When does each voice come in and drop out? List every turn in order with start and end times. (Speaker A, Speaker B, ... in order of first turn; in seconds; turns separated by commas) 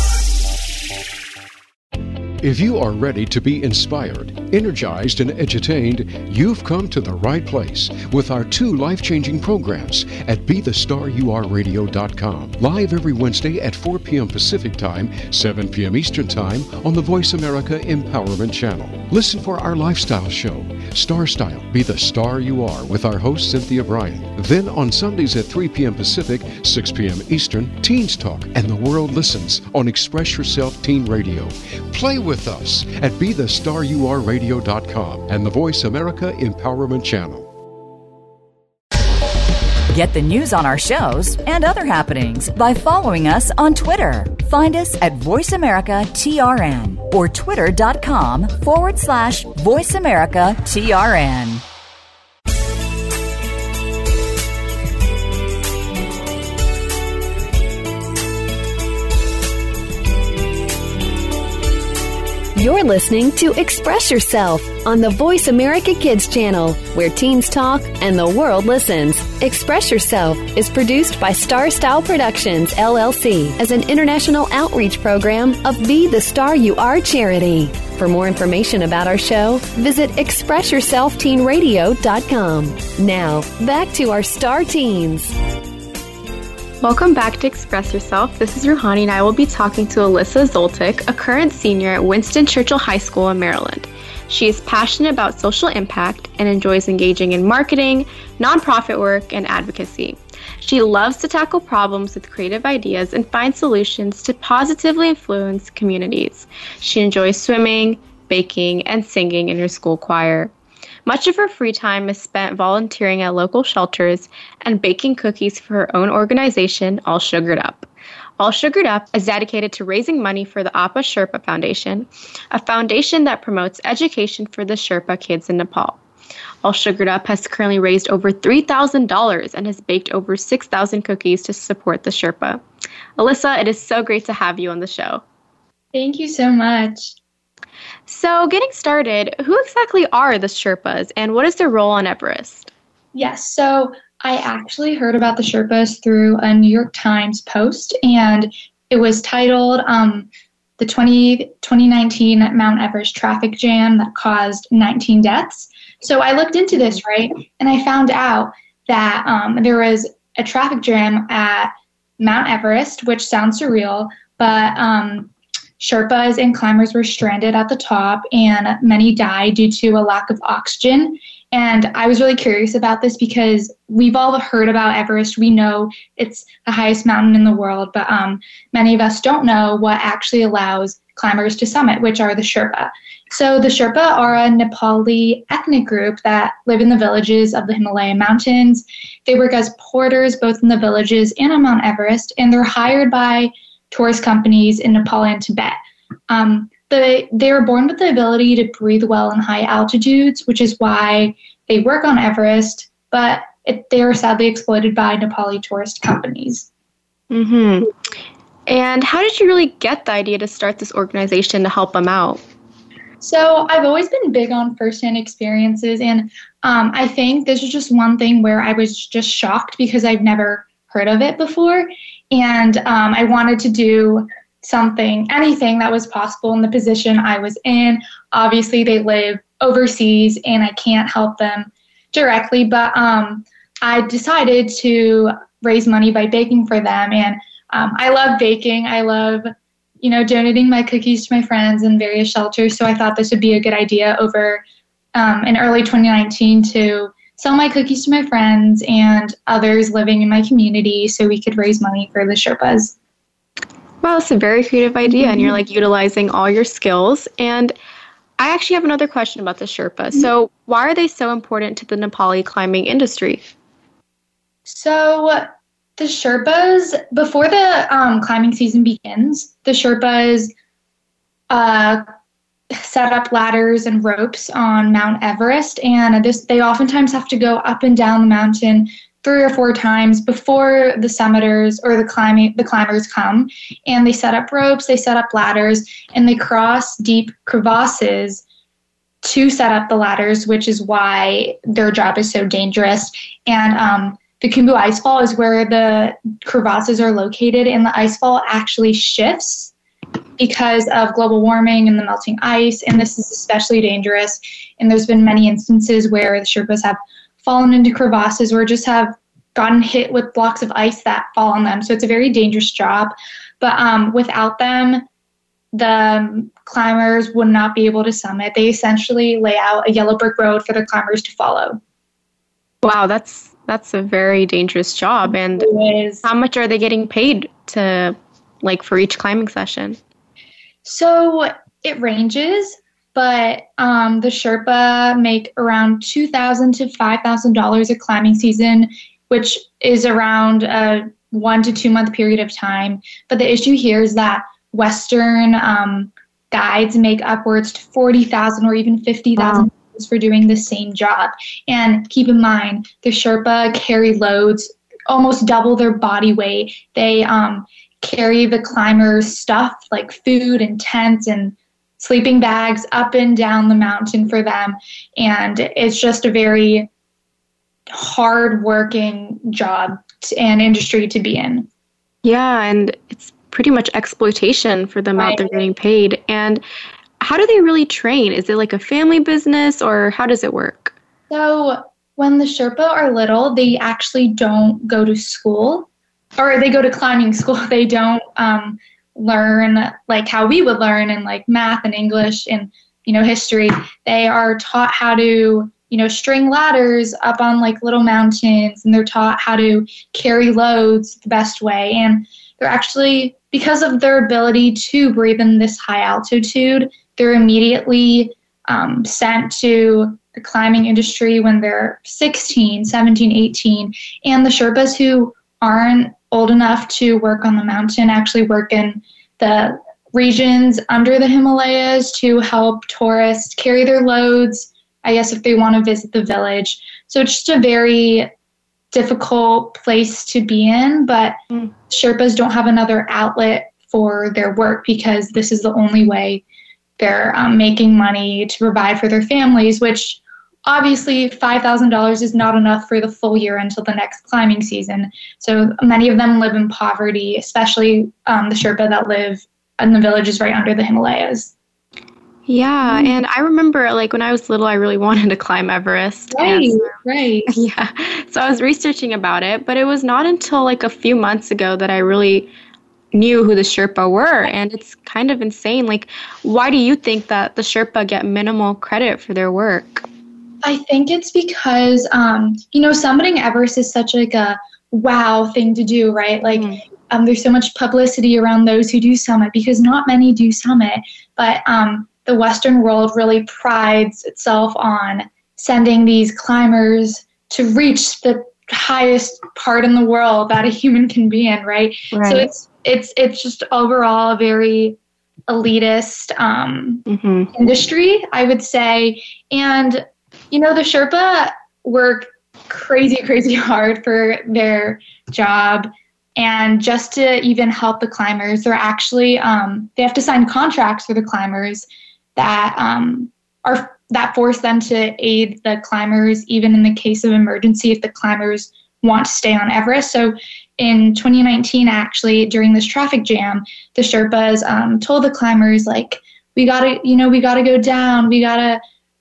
Speaker A: 2.4-37.5, Speaker B: 39.9-51.6, Speaker C: 62.5-85.3, Speaker D: 86.8-110.5, Speaker D: 111.1-117.9, Speaker D: 118.4-126.0, Speaker D: 126.6-132.6, Speaker D: 133.2-135.2, Speaker E: 135.9-137.1, Speaker D: 138.1-142.7, Speaker E: 143.2-150.3, Speaker E: 150.8-195.8, Speaker E: 196.3-206.7, Speaker D: 207.3-207.9, Speaker D: 208.7-212.4, Speaker E: 213.2-239.5, Speaker E: 240.0-244.6, Speaker E: 245.2-252.9, Speaker D: 254.0-257.8, Speaker E: 255.1-255.5, Speaker D: 258.4-263.5, Speaker E: 264.7-270.5, Speaker E: 271.5-272.1, Speaker E: 272.8-288.4, Speaker E: 289.2-299.7, Speaker E: 300.4-315.1, Speaker E: 315.7-321.8, Speaker D: 322.8-325.7, Speaker E: 325.3-326.2, Speaker D: 326.2-330.0, Speaker E: 330.9-366.9, Speaker D: 349.4-349.7, Speaker E: 367.9-371.7, Speaker D: 372.2-376.6, Speaker E: 375.2-375.6, Speaker D: 377.2-380.9, Speaker E: 381.3-428.3, Speaker E: 428.9-431.4, Speaker E: 431.9-436.4, Speaker E: 437.0-451.5, Speaker D: 452.5-462.5, Speaker E: 452.8-453.2, Speaker E: 456.3-457.6, Speaker D: 463.1-470.1, Speaker E: 470.6-495.0, Speaker D: 476.5-476.8, Speaker D: 492.1-492.5, Speaker E: 495.5-528.8, Speaker D: 497.1-497.5